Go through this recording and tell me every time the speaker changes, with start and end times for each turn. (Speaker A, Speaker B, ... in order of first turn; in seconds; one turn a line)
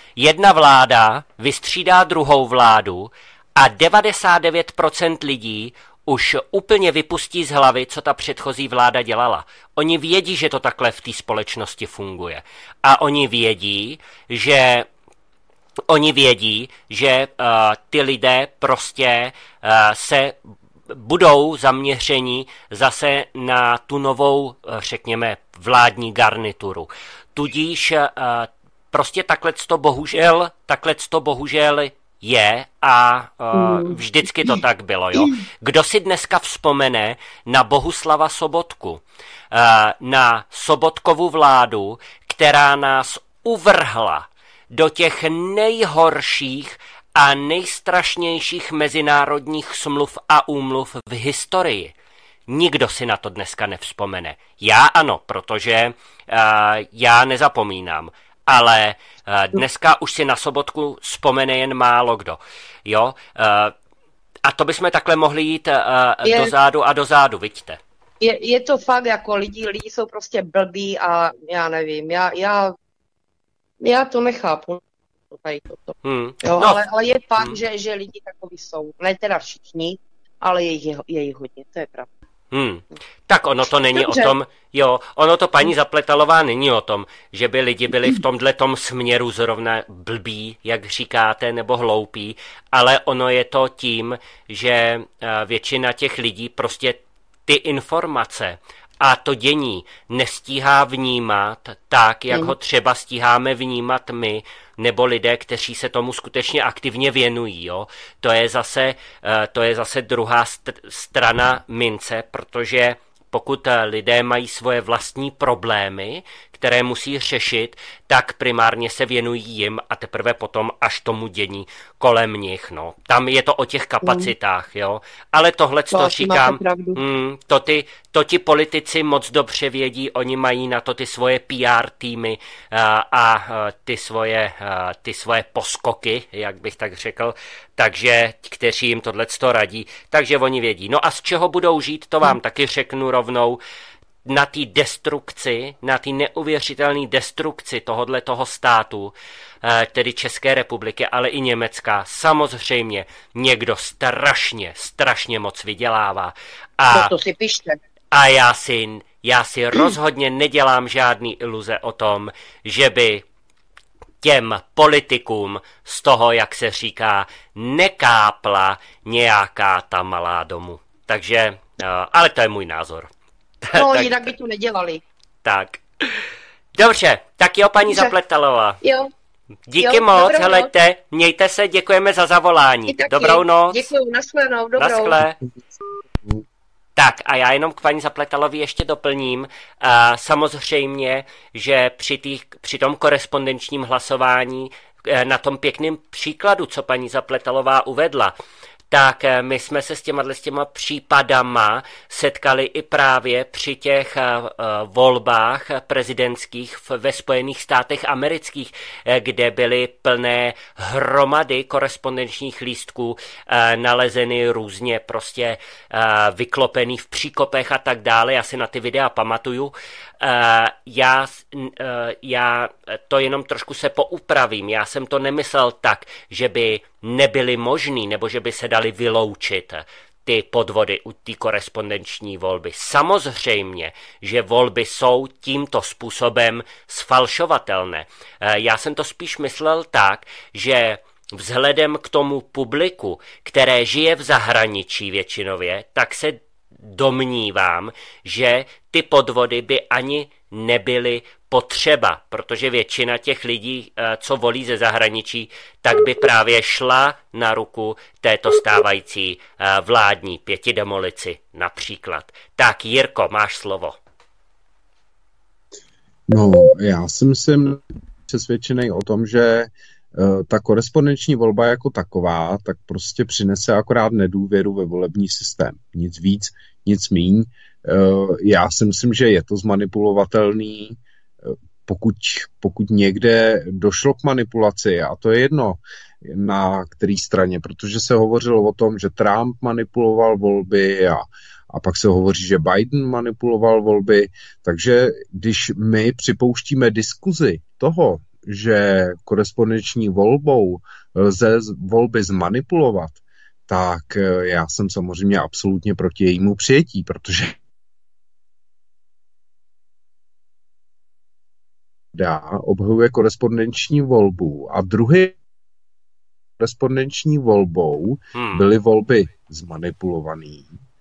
Speaker A: 0.2-14.9
Speaker A: 15.9-20.4
Speaker A: 20.9-51.9
Speaker B: 33.5-34.6
Speaker B: 35.1-35.4
Speaker A: 52.5-63.7
Speaker A: 64.4-67.8
Speaker B: 66.2-66.5
Speaker B: 68.2-72.7
Speaker B: 73.8-82.1
Speaker A: 76.0-76.8
Speaker A: 82.5-143.6
Speaker B: 83.8-84.3
Speaker B: 124.0-124.3
Speaker B: 125.9-127.0
Speaker A: 144.2-157.1
Speaker B: 156.9-157.8
Speaker A: 158.1-163.2
Speaker A: 164.2-173.1
Speaker A: 173.6-174.3
Speaker B: 173.7-175.0
Speaker A: 175.4-176.2
Speaker A: 176.8-178.8
Speaker B: 177.9-178.1
Speaker B: 178.8-179.1
Speaker A: 179.7-183.9
Speaker B: 179.8-180.7
Speaker B: 182.9-185.2
Speaker A: 184.8-185.4
Speaker C: 186.2-186.4
Speaker A: 186.9-198.3
Speaker A: 198.9-264.0
Speaker C: 266.3-307.6
Speaker C: 312.1-315.4
Speaker C: 316.6-320.7
Speaker A: 318.3-318.7